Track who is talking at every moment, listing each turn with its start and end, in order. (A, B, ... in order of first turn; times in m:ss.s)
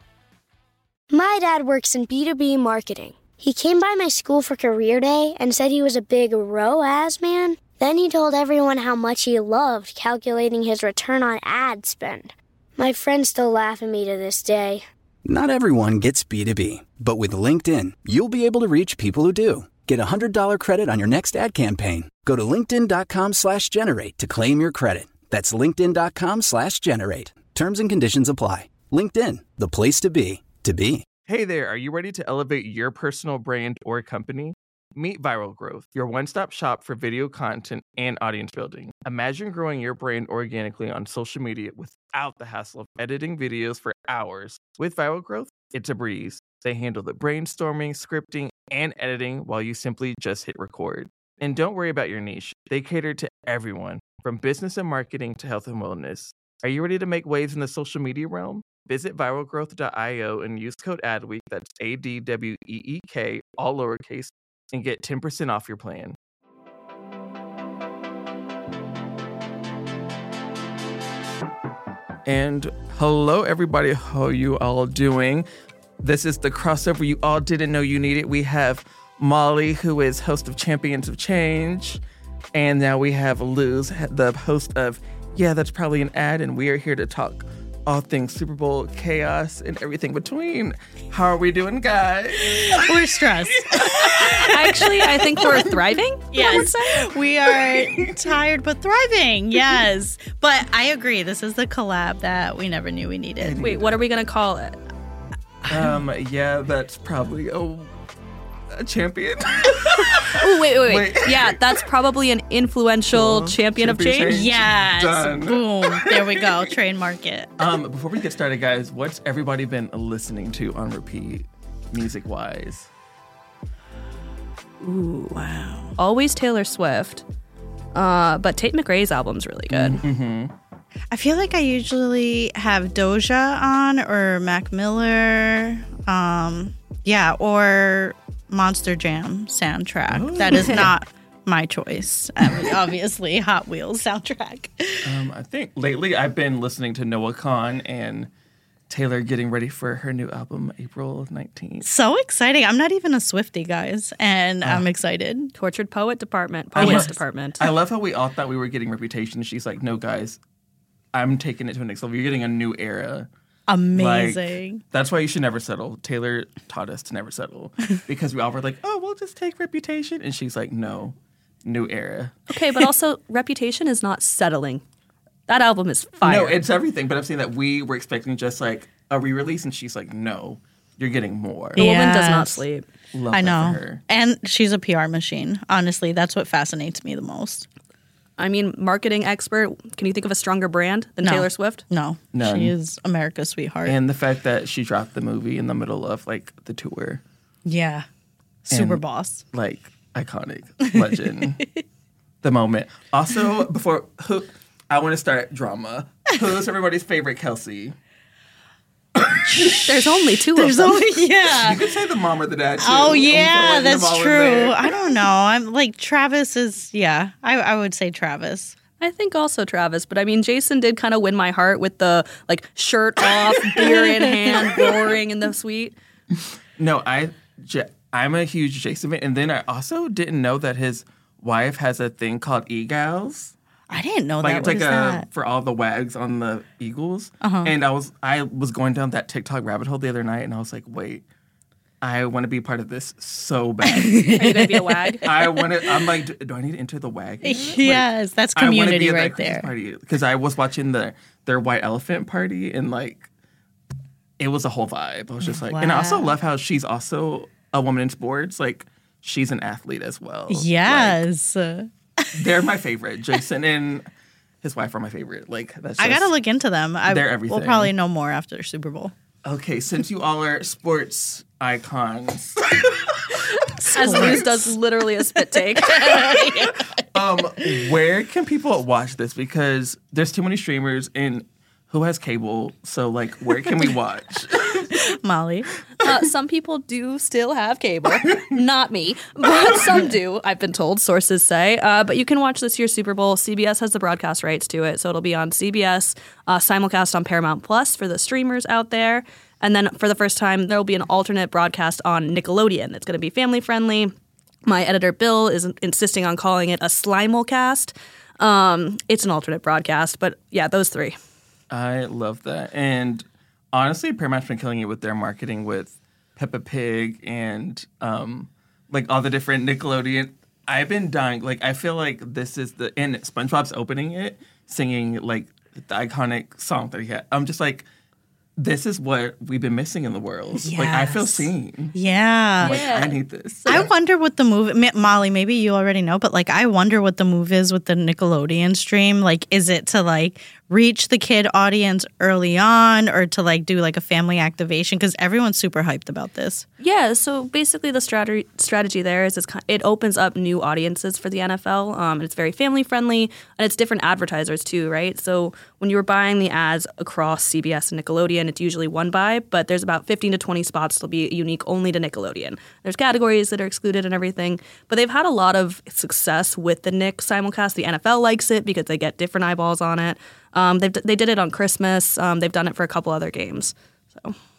0:01.1-0:14.8 A
0:15.2-0:31.0 B
0:31.3-1:06.2 C
1:12.2-1:15.4 C
1:16.0-1:22.0 C
1:22.5-1:33.0 C
1:32.3-1:35.8 D
1:33.5-1:34.3 C
1:34.1-1:37.1 E
1:36.3-1:43.6 D
1:37.4-1:38.3 C
1:43.4-1:44.0 C
1:43.6-1:44.8 E
1:45.6-1:45.9 D
1:45.7-1:47.9 C
1:48.7-1:51.8 C
1:50.2-1:54.4 E
1:53.1-1:56.6 C
1:54.3-1:57.7 D
1:57.6-2:02.9 C
2:04.8-2:06.0 D
2:06.0-2:07.2 E
2:07.9-2:10.0 E
2:09.7-2:10.5 C
2:11.1-2:25.2 D
2:20.1-2:20.9 C
2:25.0-2:28.3 C
2:28.9-2:31.9 C
2:31.8-2:35.5 D
2:35.5-2:37.6 E
2:36.8-2:40.4 C
2:36.8-2:37.1 D
2:41.1-2:43.3 C
2:43.7-2:44.8 D
2:43.9-2:51.1 C
2:51.6-2:52.4 C
2:52.5-2:54.8 E
2:55.5-2:56.6 E
2:56.2-3:01.8 C
3:01.7-3:02.6 D
3:01.8-3:02.8 E
3:03.1-3:04.0 C
3:03.3-3:07.7 D
3:08.4-3:11.8 E
3:11.2-3:14.0 D
3:12.3-3:12.7 C
3:13.8-3:17.2 C
3:17.6-3:18.0 D
3:18.7-3:19.0 C
3:18.7-3:19.4 D
3:19.5-3:21.6 C
3:22.4-3:27.9 C
3:29.2-3:30.0 C
3:29.7-3:31.1 E
3:30.5-3:31.8 D
3:31.5-3:34.9 C
3:32.8-3:38.7 D
3:39.0-3:46.0 E
3:43.8-3:44.9 D
3:46.8-3:53.5 C
3:53.9-3:55.2 D
3:54.4-4:01.2 C
3:57.4-3:57.7 D
4:02.0-4:04.3 C
4:03.8-4:06.2 D
4:04.3-4:05.3 E
4:05.2-4:13.3 C
4:07.4-4:09.7 D
4:14.4-4:21.2 C
4:15.4-4:16.3 D
4:20.5-4:22.5 D
4:22.3-4:24.0 C
4:24.6-4:26.3 C
4:26.0-4:29.1 D
4:27.0-4:27.9 C
4:29.4-4:34.4 C
4:33.7-4:34.7 D
4:33.9-4:36.3 E
4:35.3-4:37.0 D
4:36.3-4:45.1 C
4:37.6-4:37.8 D
4:44.7-4:45.7 D
4:46.0-5:04.1 E
5:04.6-5:11.2 E
5:11.7-5:27.9 C
5:28.6-5:31.9 C
5:30.6-5:32.8 D
5:32.6-5:33.9 C
5:32.6-5:33.2 E
5:33.7-5:46.6 D
5:46.8-6:14.4 E